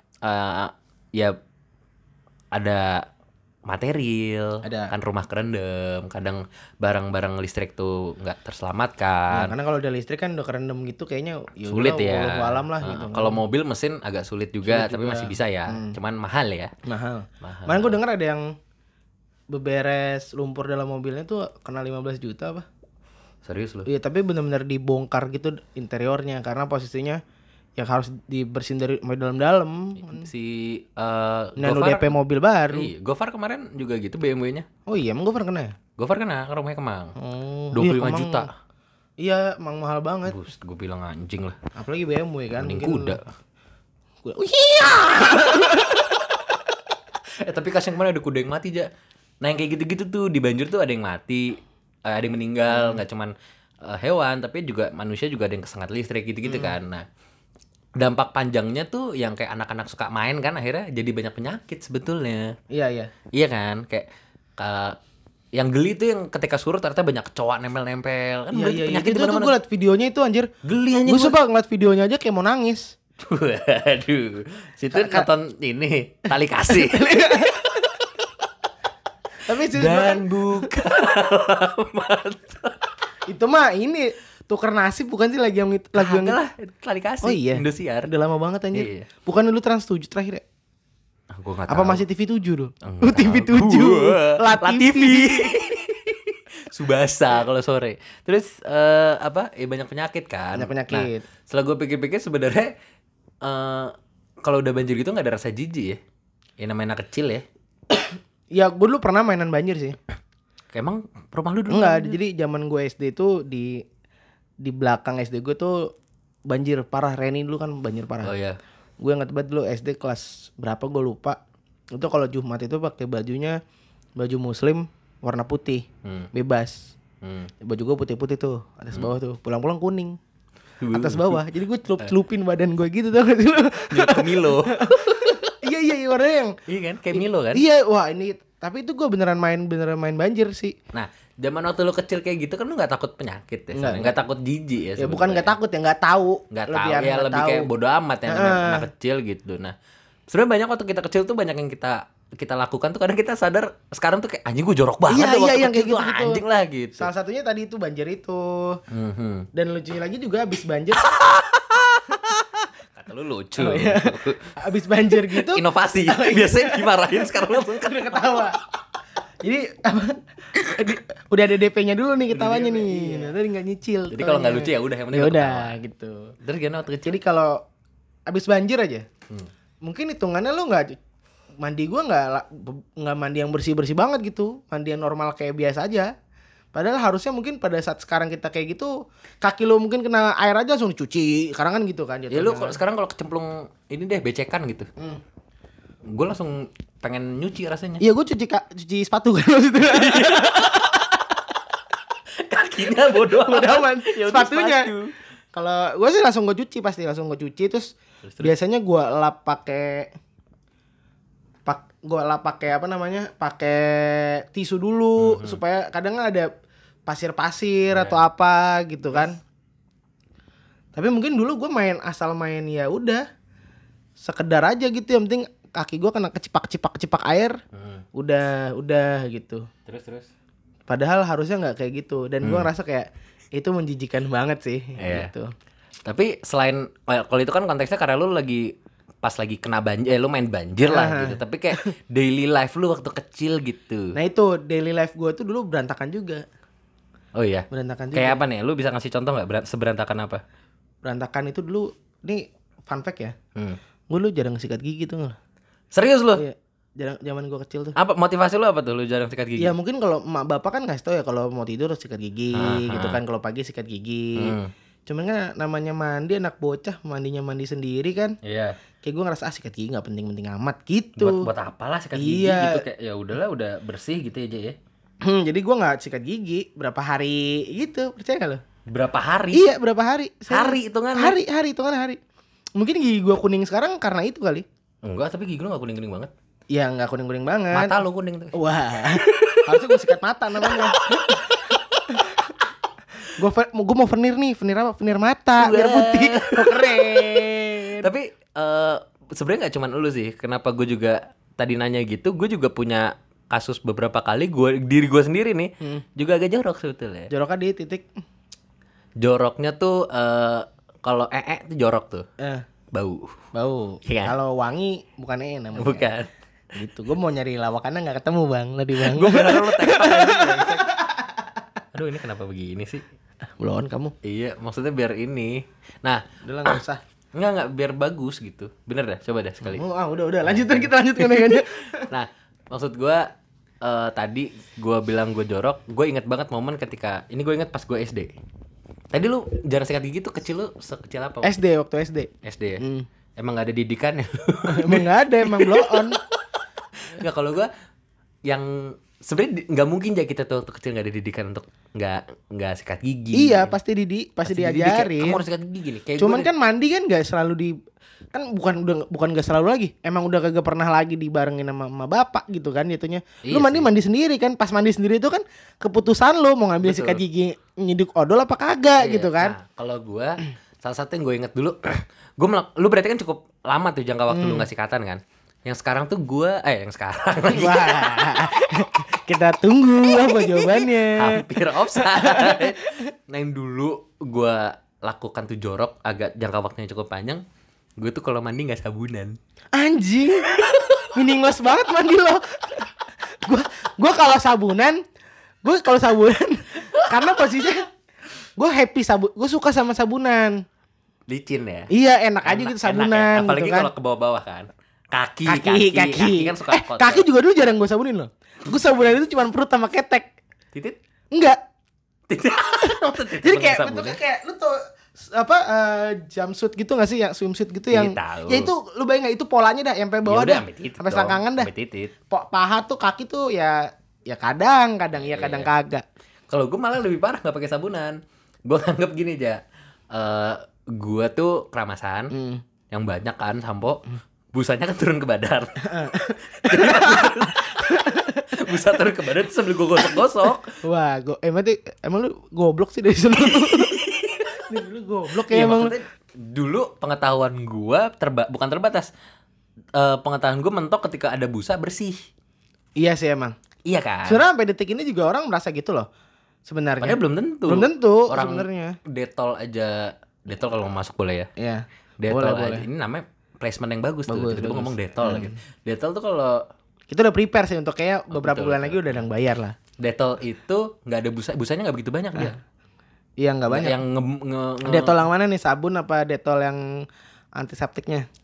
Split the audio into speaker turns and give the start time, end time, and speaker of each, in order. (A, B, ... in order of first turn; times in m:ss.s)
0:00.2-0:01.4 A
0:02.5-0:03.1 A
0:03.7-0:09.5 A
0:04.6-0:04.9 B
0:09.3-0:13.4 B
0:11.7-0:16.7 A
0:14.7-0:16.0 B
0:16.8-0:18.6 B
0:17.4-0:18.0 A
0:19.5-0:22.7 B
0:23.4-0:23.9 A
0:23.9-0:27.2 B
0:27.8-0:30.3 B
0:30.0-0:32.1 A
0:31.6-0:32.9 B
0:32.7-0:34.7 A
0:34.9-0:35.8 B
0:36.0-0:37.1 A
0:37.2-0:38.5 B
0:37.7-0:38.5 A
0:39.2-0:40.4 B
0:40.3-0:41.6 A
0:41.8-0:43.2 B
0:42.6-0:43.2 A
0:44.2-0:46.4 B
0:47.4-0:48.9 A
0:49.4-0:53.3 A
0:52.7-0:53.0 B
0:53.8-0:57.0 A
0:56.4-0:56.8 B
0:58.0-1:02.6 A
1:02.7-1:03.1 B
1:03.3-1:04.1 A
1:04.6-1:05.0 A
1:05.6-1:09.5 A
1:08.5-1:10.5 B
1:10.6-1:11.4 A
1:11.1-1:12.9 B
1:13.2-1:17.8 A
1:14.9-1:15.3 B
1:16.7-1:17.8 B
1:19.4-1:20.7 B
1:19.5-1:22.8 A
1:23.3-1:26.4 B
1:26.0-1:28.1 A
1:27.2-1:30.4 B
1:28.7-1:29.1 A
1:31.3-1:32.1 A
1:31.7-1:35.6 B
1:32.8-1:42.7 A
1:40.6-1:41.2 B
1:43.4-1:46.0 A
1:46.6-1:47.4 A
1:47.9-1:50.0 B
1:50.7-1:52.2 A
1:51.7-1:53.8 B
1:54.6-1:55.9 B
1:56.5-1:58.3 B
1:58.2-1:58.6 A
1:59.0-2:01.4 B
2:01.9-2:03.6 B
2:04.2-2:06.9 B
2:06.0-2:06.3 A
2:07.2-2:07.5 A
2:07.6-2:10.2 B
2:10.8-2:11.4 A
2:10.9-2:16.6 B
2:13.9-2:15.5 A
2:16.7-2:17.6 A
2:17.1-2:20.7 B
2:20.9-2:25.5 A
2:23.7-2:24.2 B
2:25.0-2:27.7 B
2:26.5-2:29.7 A
2:28.3-2:28.9 B
2:30.3-2:37.1 A
2:35.1-2:36.4 B
2:37.0-2:38.8 B
2:38.9-2:39.5 A
2:39.5-2:41.0 B
2:41.0-2:44.6 A
2:43.6-2:48.6 B
2:45.1-2:48.4 A
2:49.4-2:56.3 B
2:52.3-2:53.3 A
2:54.1-2:55.8 A
2:56.4-2:57.2 A
2:57.0-2:57.6 B
2:58.3-2:59.1 B
2:59.8-3:01.0 B
3:01.6-3:06.1 B
3:06.7-3:12.8 B
3:12.3-3:14.9 A
3:16.1-3:18.0 A
3:18.0-3:21.1 B
3:19.9-3:21.1 A
3:22.4-3:25.1 A
3:23.3-3:24.9 B
3:25.5-3:30.1 B
3:28.2-3:28.5 A
3:31.6-3:36.5 B
3:35.2-3:35.6 A
3:37.1-3:39.4 B
3:37.9-3:38.2 A
3:40.9-3:43.2 B
3:44.2-3:47.6 B
3:47.7-3:48.0 A
3:48.2-3:49.7 B
3:49.8-3:50.3 A
3:50.9-3:55.5 B
3:52.4-3:52.7 A
3:55.0-3:55.3 A
3:56.0-4:04.2 A
4:00.8-4:01.9 B
4:04.2-4:06.4 B
4:07.3-4:10.4 A
4:07.7-4:08.4 B
4:11.0-4:13.3 B
4:14.1-4:15.4 B
4:15.9-4:16.4 A
4:16.3-4:17.9 B
4:17.9-4:19.7 A
4:19.6-4:28.4 B
4:22.5-4:23.2 A
4:24.4-4:24.7 A
4:28.4-4:28.8 A
4:29.0-4:31.5 B
4:31.2-4:34.8 A
4:32.2-4:32.8 B
4:35.2-4:38.6 B
4:38.9-4:39.7 A
4:39.5-4:42.2 B
4:40.5-4:41.4 A
4:42.8-4:44.6 B
4:45.0-4:46.3 A
4:46.7-4:48.0 B
4:47.7-4:48.6 A
4:48.5-4:52.5 B
4:49.2-4:49.7 A
4:50.6-4:51.2 A
4:53.3-4:58.1 B
4:55.6-5:07.3 A
5:07.3-5:08.1 B
5:09.2-5:12.3 A
5:12.4-5:12.7 B
5:12.9-5:13.4 A
5:13.5-5:16.1 B
5:14.0-5:14.4 A
5:15.8-5:16.3 A
5:16.8-5:21.5 B
5:19.0-5:21.0 A
5:21.9-5:23.0 A
5:23.6-5:24.2 B
5:24.2-5:26.8 A
5:26.4-5:27.0 B
5:27.3-5:29.8 A
5:29.6-5:32.1 B
5:30.5-5:33.3 A
5:33.8-5:38.3 A
5:39.1-5:41.6 A
5:41.4-5:43.1 B
5:42.4-5:42.8 A
5:43.4-5:46.2 A
5:44.7-5:46.2 B
5:47.0-5:47.7 A
5:48.5-5:53.8 A
5:53.3-5:55.4 B
5:54.4-5:56.5 A
5:56.2-5:57.7 B
5:58.3-6:09.6 B
6:03.4-6:03.9 A
6:06.8-6:07.2 A
6:09.0-6:18.4 A
6:14.3-6:14.7 B
6:17.5-6:23.1 B
6:20.2-6:27.4 A
6:28.0-6:29.4 A
6:29.7-6:35.0 B
6:30.6-6:31.0 A
6:35.6-6:37.9 B
6:38.6-6:40.6 B
6:41.3-6:41.9 A
6:41.9-6:43.9 B
6:42.4-6:47.3 A
6:45.4-6:50.3 B
6:51.3-6:51.6 B
6:52.3-6:54.2 A
6:52.7-7:01.7 B
6:57.9-6:58.7 A
7:00.2-7:02.1 A
7:02.3-7:06.0 B
7:05.2-7:05.7 A
7:06.5-7:09.6 A
7:10.1-7:12.3 A
7:12.3-7:12.6 B
7:12.9-7:14.0 A
7:14.5-7:20.8 A
7:15.8-7:18.5 B
7:20.8-7:25.9 B
7:23.5-7:24.6 A
7:25.4-7:29.1 A
7:30.0-7:32.2 A
7:33.0-7:33.6 B
7:33.9-7:34.4 A
7:34.3-7:36.1 B
7:36.6-7:39.0 B
7:37.0-7:41.5 A
7:41.6-7:42.8 B
7:42.2-7:46.6 A
7:44.3-7:45.5 B
7:47.1-7:49.8 B
7:48.3-7:49.2 A
7:50.0-7:52.6 A
7:53.4-7:54.0 B
7:53.7-7:55.2 A
7:54.8-7:56.9 B
7:57.6-7:58.3 B